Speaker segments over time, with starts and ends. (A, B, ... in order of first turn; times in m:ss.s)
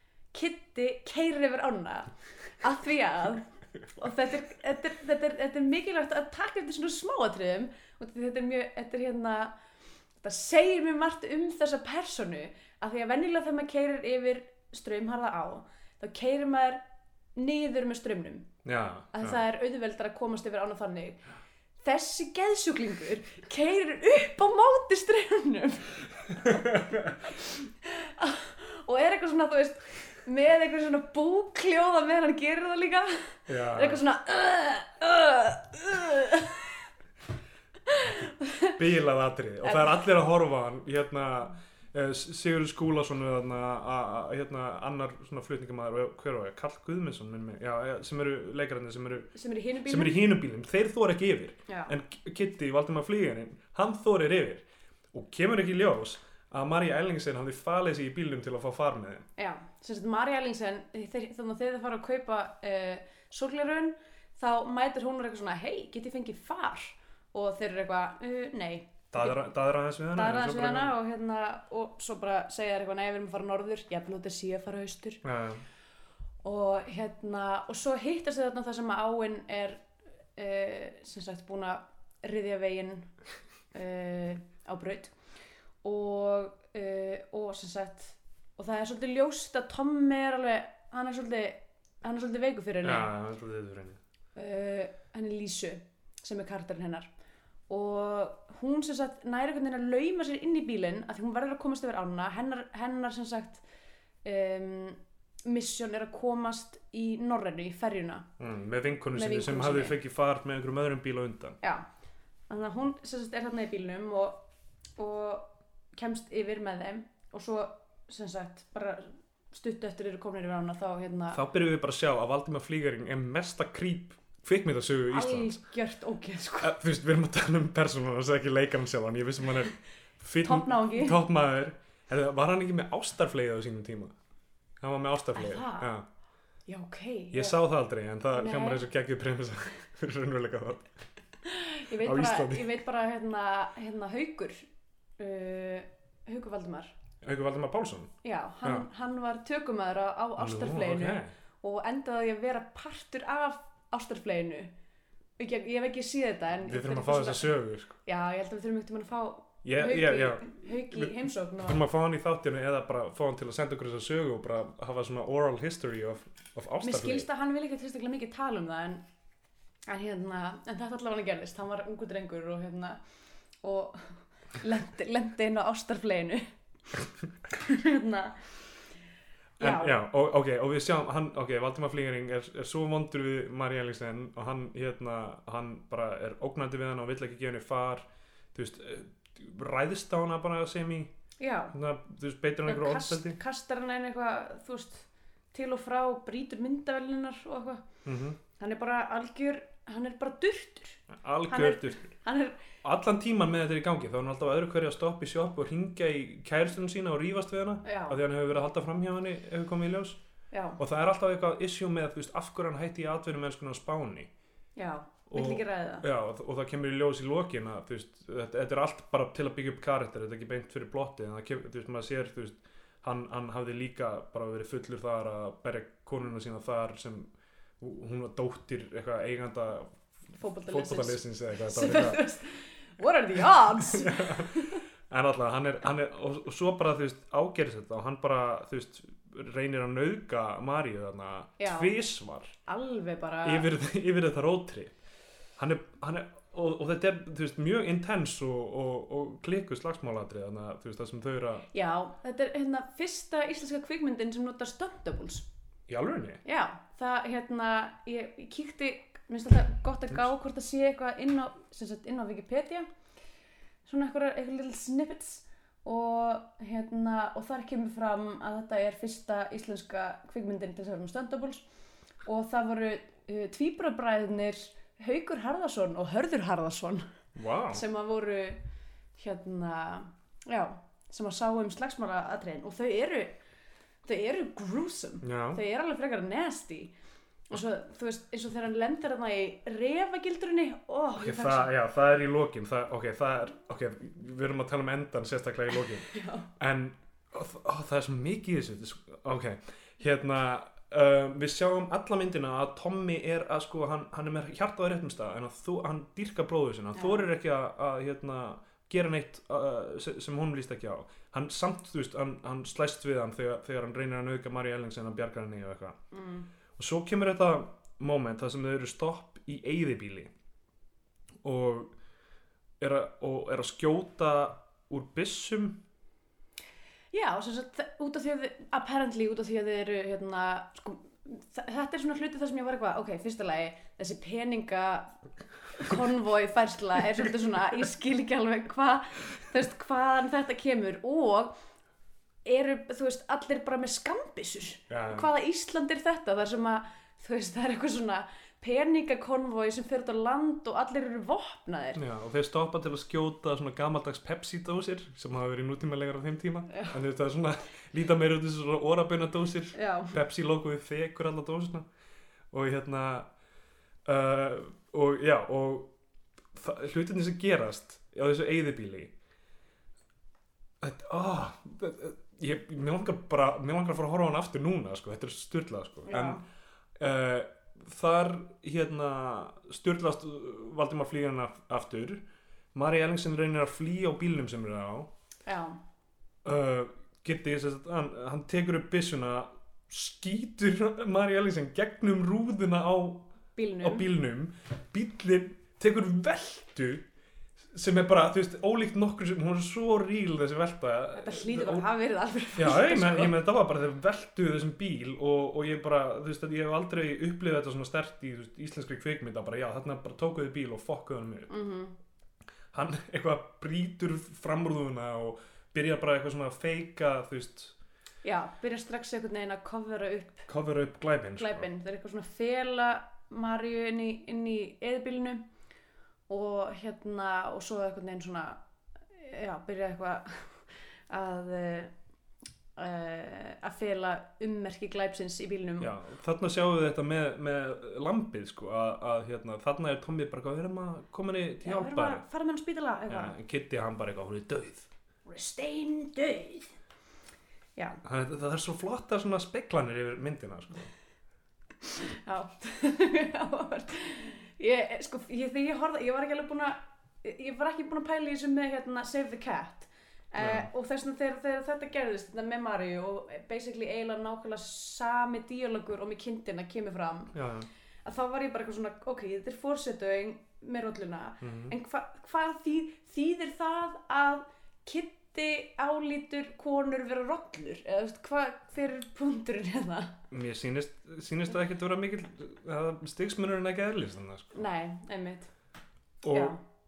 0:00.3-0:09.6 A
0:10.2-0:16.8 A
0:17.3-0:18.5 A
0:18.6-0:19.4 B
0:19.1-0:21.2 A
0:21.8-0:36.8 A
0:26.4-0:27.1 B
0:33.5-0:34.0 B
0:37.9-0:38.7 A
0:38.8-0:59.3 B
0:39.6-0:40.0 A
0:49.3-0:50.2 A
0:51.7-0:51.9 A
0:59.4-1:09.4 A
1:09.1-1:10.9 B
1:10.1-1:15.2 A
1:15.2-1:15.6 B
1:16.4-1:19.8 A
1:20.4-1:23.1 A
1:23.7-1:25.1 A
1:25.8-1:33.1 A
1:32.8-1:34.0 B
1:34.4-1:37.1 A
1:37.7-1:43.6 A
1:44.2-1:48.3 A
1:48.4-1:51.6 B
1:49.1-1:50.0 A
1:51.6-1:51.8 A
1:52.5-1:54.4 A
1:55.0-2:01.4 A
2:01.3-2:05.6 B
2:05.1-2:06.7 A
2:06.6-2:14.1 B
2:10.4-2:11.2 A
2:14.8-2:16.0 B
2:15.3-2:15.9 A
2:16.7-2:17.6 A
2:17.3-2:20.9 B
2:18.3-2:18.8 A
2:21.4-2:24.6 A
2:22.0-2:22.7 B
2:25.2-2:26.9 A
2:27.2-2:28.1 B
2:28.2-2:34.7 A
2:30.4-2:31.3 B
2:35.4-2:41.8 A
2:36.6-2:38.0 B
2:39.6-2:47.3 B
2:46.8-2:49.0 A
2:49.9-2:53.0 A
2:53.6-2:56.5 A
2:57.5-2:58.6 A
2:59.6-3:11.1 B
2:59.6-2:59.9 A
3:11.4-3:11.7 A
3:11.7-3:13.4 B
3:12.6-3:17.8 A
3:18.0-3:18.4 B
3:18.6-3:22.6 A
3:21.1-3:22.1 B
3:22.8-3:30.2 B
3:27.8-3:28.2 A
3:30.5-3:30.8 A
3:30.8-3:34.3 B
3:34.8-3:36.0 A
3:35.3-3:50.0 B
3:50.4-3:54.8 A
3:50.6-3:52.2 B
3:53.8-4:02.5 B
4:01.6-4:01.9 A
4:02.6-4:03.7 A
4:03.4-4:05.0 B
4:05.6-4:11.7 B
4:11.7-4:15.5 A
4:15.9-4:16.4 B
4:16.4-4:22.9 A
4:23.8-4:31.6 A
4:32.2-4:37.1 A
4:37.3-4:37.8 B
4:37.7-4:38.6 A
4:39.2-4:43.4 A
4:44.0-4:46.9 A
4:45.2-4:45.6 B
4:47.5-4:51.7 A
4:51.2-5:16.0 B
4:56.1-4:56.5 A
5:07.0-5:07.3 A
5:16.1-5:16.5 A
5:16.8-5:20.3 B
5:21.4-5:21.9 B
5:22.8-5:25.8 B
5:27.1-5:41.6 A
5:42.4-5:52.0 A
5:44.9-5:45.3 B
5:51.9-6:01.9 B
5:56.7-5:57.0 A
5:59.7-6:00.1 A
6:02.5-6:03.3 B
6:04.0-6:05.9 B
6:06.5-6:09.1 B
6:10.8-6:16.4 B
6:16.1-6:16.4 A
6:17.0-6:25.1 B
6:25.4-6:25.8 A
6:26.4-6:33.3 B
6:33.6-6:34.0 A
6:33.8-6:37.1 B
6:37.7-6:41.8 B
6:41.1-6:43.3 A
6:42.6-6:51.5 B
6:51.5-6:52.0 A
6:52.7-6:57.7 B
6:58.2-7:00.5 A
7:00.5-7:01.7 B
7:01.4-7:05.4 A
7:06.3-7:08.6 A
7:09.1-7:11.9 A
7:12.8-7:15.9 A
7:15.8-7:22.2 B
7:21.6-7:23.4 A
7:23.1-7:24.9 B
7:25.2-7:26.7 A
7:27.8-7:28.0 A
7:28.0-7:30.9 B
7:31.9-7:47.4 A
7:40.4-7:40.7 B
7:47.3-7:47.7 B
7:48.0-8:00.2 A
7:51.4-7:51.7 B
8:00.3-8:04.6 B
8:04.5-8:05.5 A
8:06.2-8:06.6 B
8:06.3-8:06.6 A